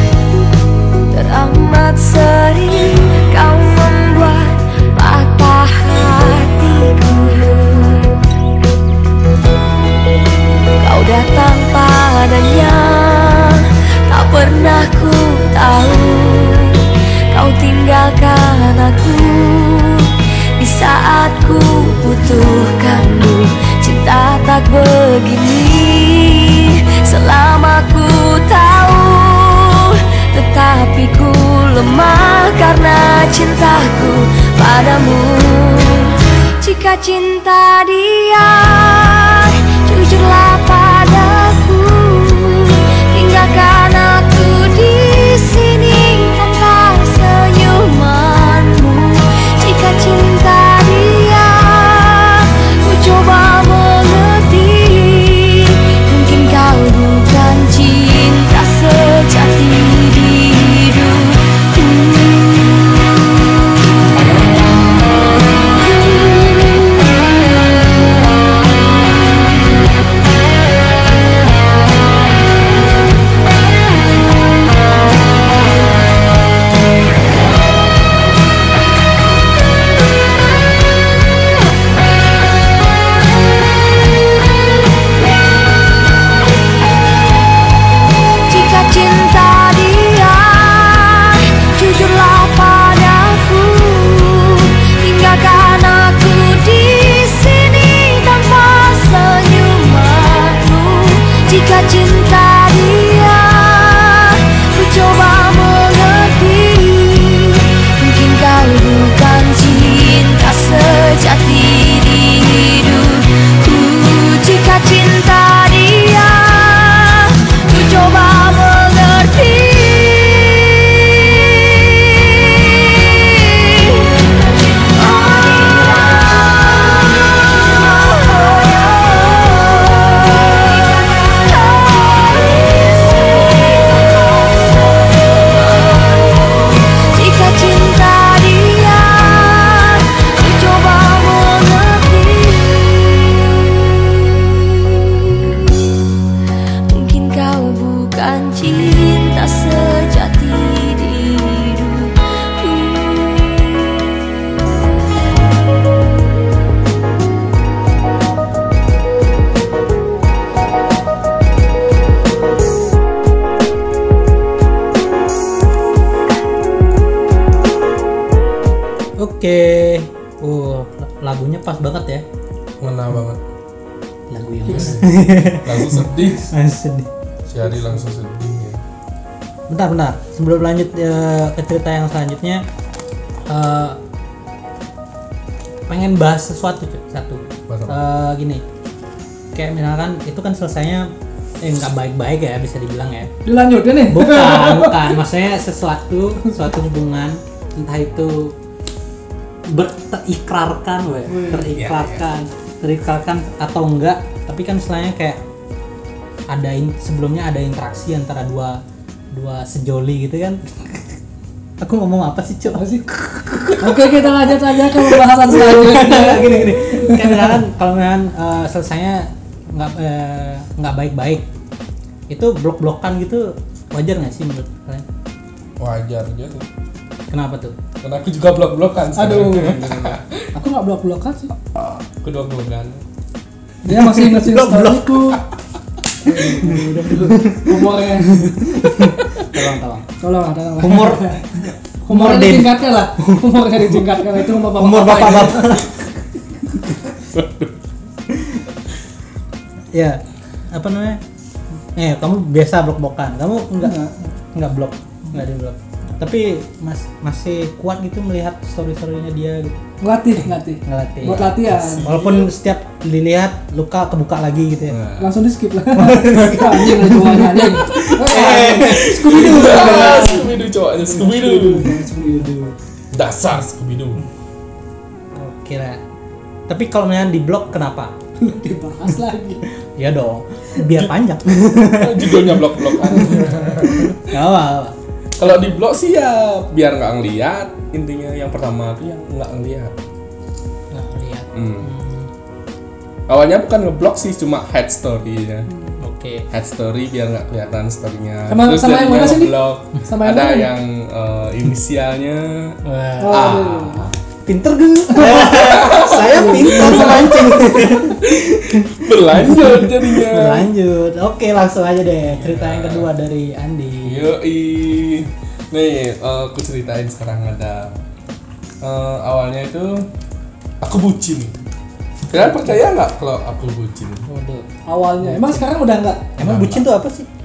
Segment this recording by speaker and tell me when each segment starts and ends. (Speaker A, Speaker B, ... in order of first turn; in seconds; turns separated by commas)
Speaker A: 1.1-8.2, Speaker A: 10.8-62.7, Speaker A: 66.2-66.6, Speaker A: 88.5-145.3, Speaker A: 146.9-153.9, Speaker B: 169.2-172.2, Speaker C: 172.8-173.4, Speaker B: 174.3-177.1, Speaker C: 174.7-176.5, Speaker C: 177.5-178.8, Speaker B: 179.7-182.6, Speaker B: 183.5-184.0, Speaker B: 185.9-188.6, Speaker C: 187.7-188.0, Speaker B: 189.5-193.3, Speaker D: 193.4-195.2, Speaker B: 194.1-198.6, Speaker B: 199.7-205.4, Speaker D: 201.3-201.7, Speaker C: 201.7-202.2, Speaker B: 206.5-210.8, Speaker B: 211.8-221.4, Speaker D: 212.7-213.1, Speaker D: 213.8-217.6, Speaker B: 222.3-225.0, Speaker C: 225.8-226.7, Speaker B: 227.3-227.8, Speaker C: 228.0-230.4, Speaker D: 229.1-231.5, Speaker C: 232.2-233.0, Speaker D: 233.8-235.4, Speaker B: 233.9-235.3, Speaker D: 236.2-238.7, Speaker B: 236.3-240.1, Speaker D: 240.2-245.8, Speaker B: 240.8-241.4, Speaker B: 242.0-246.0, Speaker C: 247.2-247.8, Speaker B: 248.3-248.6, Speaker B: 249.9-251.2, Speaker B: 251.9-254.0, Speaker D: 253.8-254.3, Speaker B: 254.5-259.8, Speaker D: 260.0-262.1, Speaker B: 260.8-265.0, Speaker C: 261.3-262.5, Speaker C: 264.9-265.3, Speaker D: 265.2-272.6, Speaker B: 265.9-270.5, Speaker C: 268.0-271.9, Speaker B: 271.9-272.7, Speaker C: 273.1-274.2, Speaker B: 275.3-276.0, Speaker B: 276.7-278.1, Speaker D: 278.4-279.6, Speaker B: 279.8-284.9, Speaker C: 281.8-284.2, Speaker D: 283.2-284.1, Speaker C: 285.4-290.0, Speaker B: 290.9-292.3, Speaker C: 291.5-291.9, Speaker C: 293.3-295.7, Speaker D: 295.7-296.0, Speaker B: 296.0-296.5, Speaker C: 296.5-304.1, Speaker D: 298.5-300.7, Speaker B: 302.8-303.7, Speaker D: 303.2-304.1, Speaker B: 304.4-314.3, Speaker D: 305.1-305.5, Speaker C: 305.2-310.7, Speaker D: 306.2-307.4, Speaker C: 312.2-313.1, Speaker C: 314.0-317.9, Speaker C: 318.8-320.1, Speaker C: 320.8-321.5, Speaker C: 322.3-324.2, Speaker B: 324.3-324.7, Speaker D: 324.9-326.3, Speaker B: 325.2-325.6, Speaker B: 326.4-327.3, Speaker C: 326.4-326.9